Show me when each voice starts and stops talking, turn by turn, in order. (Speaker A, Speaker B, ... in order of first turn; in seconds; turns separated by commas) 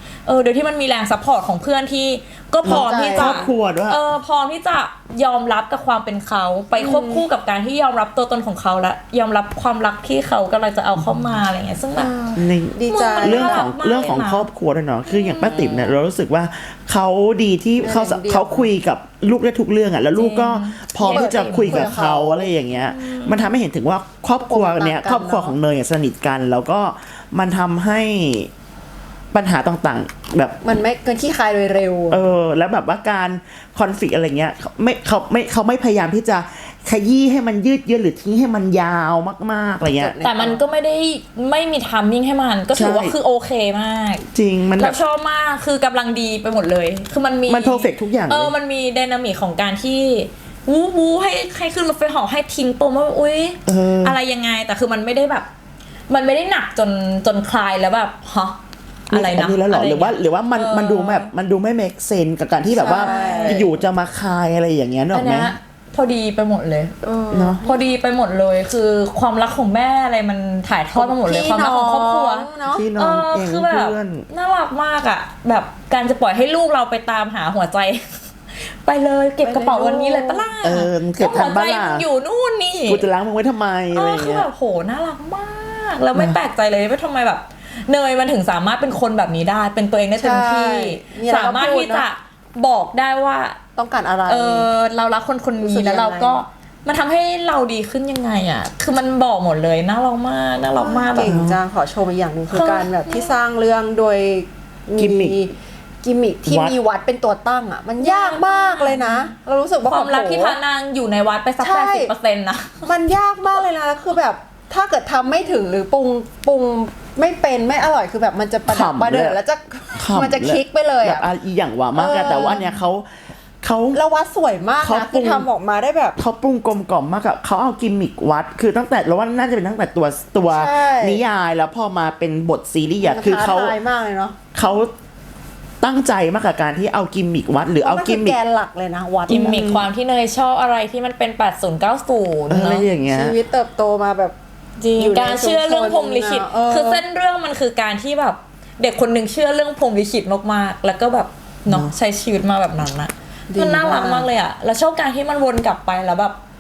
Speaker A: 0.2-12.2, Speaker B: 2.6-3.5, Speaker C: 2.6-4.0, Speaker B: 6.8-7.2, Speaker B: 12.0-13.7, Speaker C: 12.4-28.5, Speaker A: 12.9-14.5, Speaker A: 15.1-16.0, Speaker B: 17.8-18.7, Speaker A: 20.1-21.9, Speaker B: 21.1-22.5, Speaker A: 22.9-23.5, Speaker B: 24.4-25.6, Speaker C: 29.3-30.6, Speaker B: 30.6-32.2, Speaker C: 32.1-40.2, Speaker B: 39.9-40.6, Speaker A: 40.2-44.2, Speaker C: 42.7-43.1, Speaker C: 44.3-45.0, Speaker A: 44.8-55.5, Speaker C: 47.5-48.5, Speaker C: 53.7-54.2, Speaker A: 56.1-58.6, Speaker A: 59.1-61.3, Speaker C: 59.1-65.5, Speaker B: 62.7-63.7, Speaker A: 62.9-63.8, Speaker A: 65.1-66.9, Speaker B: 67.0-67.8, Speaker C: 67.3-67.7, Speaker A: 67.6-83.1, Speaker B: 71.0-72.9, Speaker C: 72.7-74.3, Speaker B: 79.4-80.5, Speaker C: 80.6-82.1, Speaker C: 82.9-84.5, Speaker A: 83.9-93.6, Speaker B: 90.2-92.1, Speaker B: 93.8-94.7, Speaker A: 94.3-101.4, Speaker B: 95.6-96.5, Speaker B: 100.8-110.6, Speaker C: 101.2-101.6, Speaker A: 102.5-103.3, Speaker C: 105.0-105.4, Speaker C: 106.5-106.8, Speaker A: 108.0-109.3, Speaker A: 109.9-112.8, Speaker B: 111.6-112.1, Speaker B: 112.8-121.3, Speaker C: 118.7-119.4, Speaker C: 120.0-123.1, Speaker B: 122.0-122.8, Speaker C: 123.6-124.0, Speaker B: 123.9-126.2, Speaker C: 124.8-125.5, Speaker C: 126.2-133.8, Speaker B: 130.5-131.2, Speaker B: 133.0-134.4, Speaker C: 134.5-134.9, Speaker C: 135.8-138.4, Speaker B: 137.8-139.7, Speaker C: 139.3-139.9, Speaker A: 139.3-142.9, Speaker C: 142.5-143.4, Speaker B: 143.1-144.3, Speaker A: 144.8-156.4, Speaker B: 145.0-147.0, Speaker C: 151.7-151.9, Speaker B: 153.5-154.3